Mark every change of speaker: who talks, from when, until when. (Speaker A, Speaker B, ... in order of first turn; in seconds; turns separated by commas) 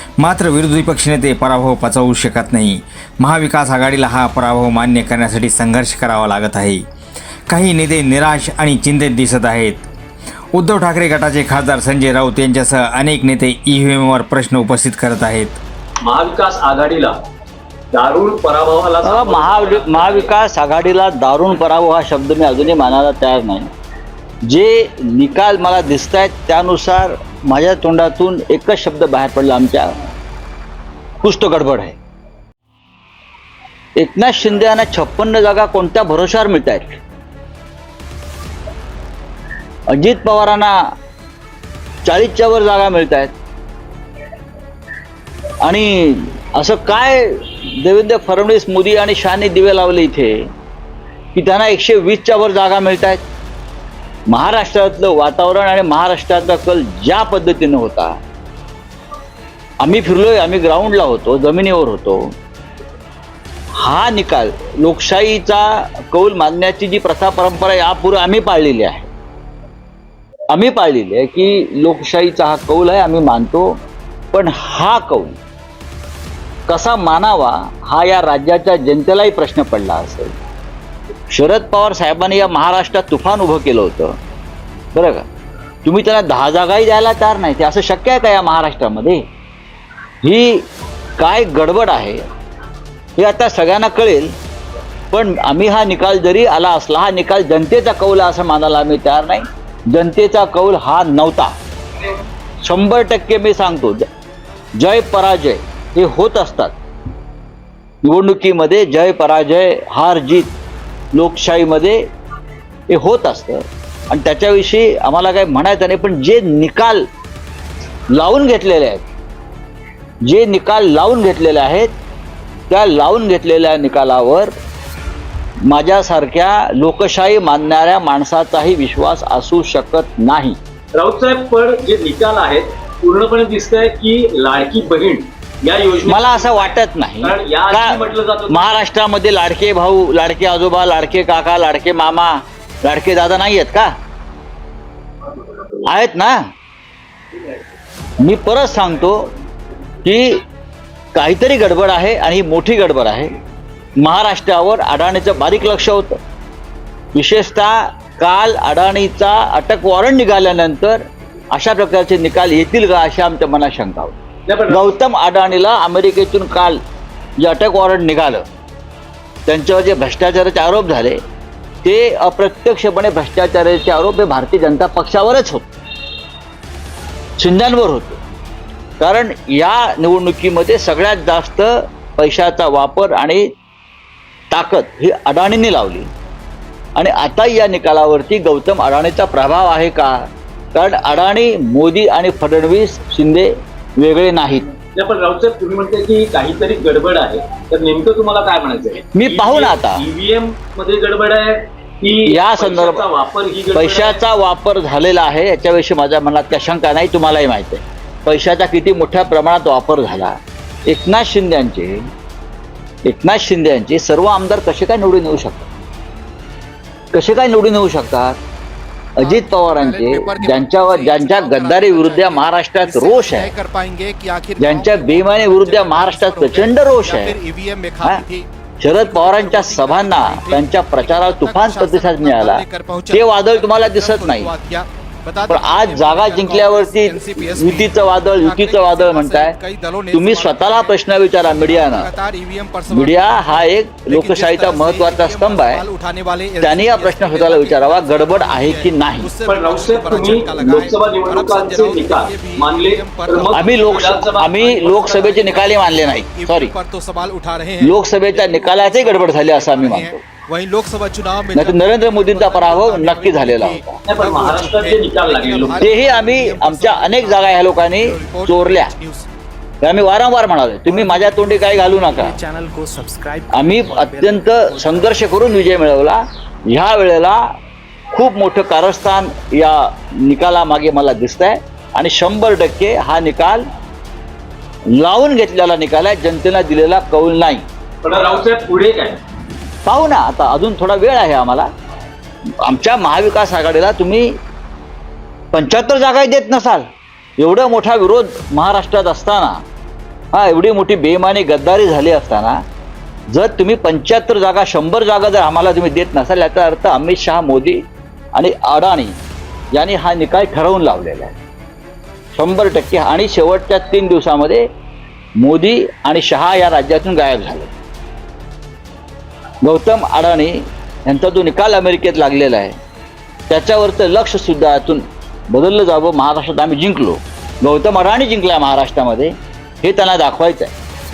Speaker A: 0.2-6.8, Speaker A: 7.5-9.8, Speaker A: 10.5-15.6, Speaker B: 16.0-17.1, Speaker B: 17.9-20.3, Speaker C: 19.0-23.7, Speaker C: 24.5-29.9, Speaker C: 31.2-32.0, Speaker C: 34.0-37.0, Speaker C: 39.9-40.8, Speaker C: 42.0-43.3, Speaker C: 45.6-50.4, Speaker C: 51.3-53.2, Speaker C: 54.3-58.2, Speaker C: 59.8-62.3, Speaker C: 63.8-69.1, Speaker C: 70.5-73.7, Speaker C: 74.3-75.3, Speaker C: 76.7-80.3, Speaker C: 81.3-84.1, Speaker C: 84.9-85.2, Speaker C: 85.8-89.2, Speaker C: 90.2-90.6, Speaker C: 91.2-92.2, Speaker C: 93.2-94.3, Speaker C: 95.1-101.5, Speaker C: 102.6-104.0, Speaker C: 104.8-106.7, Speaker C: 108.0-110.5, Speaker C: 111.1-112.0, Speaker C: 112.9-117.0, Speaker C: 118.1-119.0, Speaker C: 120.2-121.9, Speaker C: 122.7-124.5, Speaker C: 125.7-130.6, Speaker B: 130.9-138.7, Speaker C: 136.1-143.9, Speaker C: 145.8-146.4, Speaker C: 148.2-149.2, Speaker C: 150.0-150.4, Speaker C: 151.1-153.3, Speaker C: 154.0-156.2, Speaker C: 157.1-161.0, Speaker C: 161.5-164.1, Speaker B: 164.5-164.9, Speaker C: 164.7-166.8, Speaker C: 167.4-168.4, Speaker C: 169.5-171.2, Speaker C: 171.8-175.7, Speaker C: 177.4-178.2, Speaker C: 179.0-183.4, Speaker C: 184.5-186.1, Speaker C: 186.9-190.2, Speaker C: 190.7-194.7, Speaker B: 194.9-204.2, Speaker C: 199.1-200.0, Speaker C: 202.2-203.1, Speaker C: 203.7-212.0, Speaker C: 213.1-215.7, Speaker C: 217.1-218.4, Speaker C: 219.2-223.5, Speaker D: 219.2-228.5, Speaker C: 224.6-227.4, Speaker C: 228.8-234.5, Speaker D: 229.0-269.3, Speaker C: 235.5-239.5, Speaker C: 240.1-242.1, Speaker C: 242.9-245.8, Speaker C: 246.6-249.3, Speaker B: 249.5-255.0, Speaker C: 250.6-250.9, Speaker C: 253.5-256.7, Speaker C: 257.8-260.2, Speaker C: 261.5-264.0, Speaker B: 264.1-265.9, Speaker C: 265.8-268.9, Speaker C: 269.8-272.3, Speaker D: 270.9-272.2, Speaker E: 270.9-275.6, Speaker C: 273.5-277.4, Speaker C: 278.1-283.6, Speaker C: 285.0-287.6, Speaker B: 288.0-289.2, Speaker C: 289.9-291.7, Speaker C: 292.6-294.3, Speaker C: 295.5-296.8, Speaker C: 297.4-299.6, Speaker C: 300.3-302.6, Speaker C: 303.3-307.8, Speaker C: 308.4-309.1, Speaker C: 309.7-311.3, Speaker C: 312.4-314.6, Speaker C: 315.4-317.7, Speaker C: 319.6-322.7, Speaker C: 323.5-329.3, Speaker C: 329.8-330.7